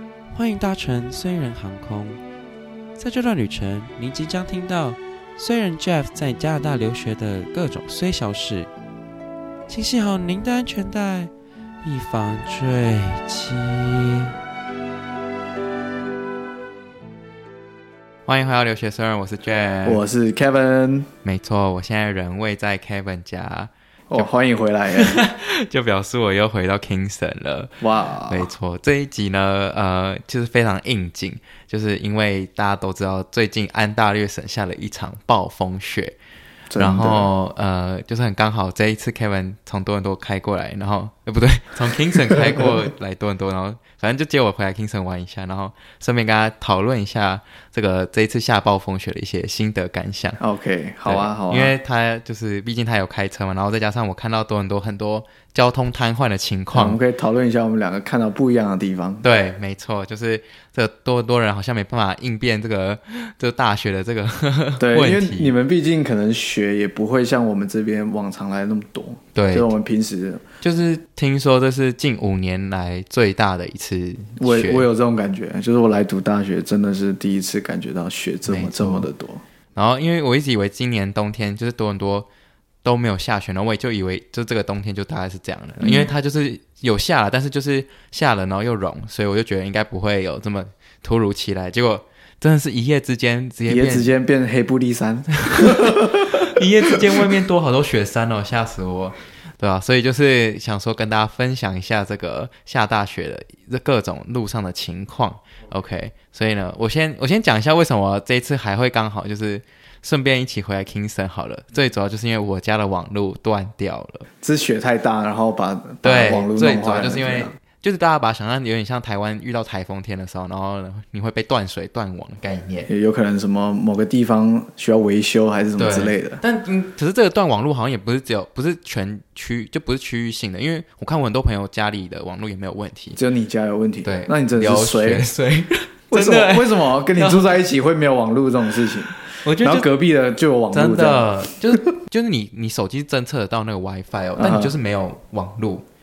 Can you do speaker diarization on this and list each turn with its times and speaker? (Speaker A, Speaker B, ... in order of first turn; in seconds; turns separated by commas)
Speaker A: 0.3-2.2, Speaker A: 3.0-8.7, Speaker A: 9.7-11.3, Speaker A: 11.8-14.2, Speaker B: 18.3-20.0, Speaker C: 19.9-21.1, Speaker B: 21.2-24.3, Speaker C: 24.1-25.2, Speaker B: 24.9-36.1, Speaker C: 27.8-28.5, Speaker C: 36.7-37.3, Speaker B: 36.8-50.4, Speaker C: 42.4-42.6, Speaker C: 50.4-51.7, Speaker B: 51.1-57.0, Speaker C: 56.7-59.2, Speaker B: 59.2-65.5, Speaker C: 64.8-70.4, Speaker B: 69.3-69.7, Speaker B: 70.6-74.9, Speaker C: 74.4-79.4, Speaker B: 78.5-79.1, Speaker B: 79.8-82.3, Speaker B: 82.8-94.1, Speaker C: 85.8-86.1, Speaker C: 93.7-97.3, Speaker B: 95.5-114.3, Speaker C: 114.4-117.5, Speaker B: 116.0-122.9, Speaker C: 122.9-126.4, Speaker B: 125.8-133.2, Speaker C: 133.2-135.2, Speaker B: 134.0-137.6, Speaker C: 136.1-141.8, Speaker B: 139.2-139.9, Speaker B: 140.7-145.8, Speaker C: 144.4-144.7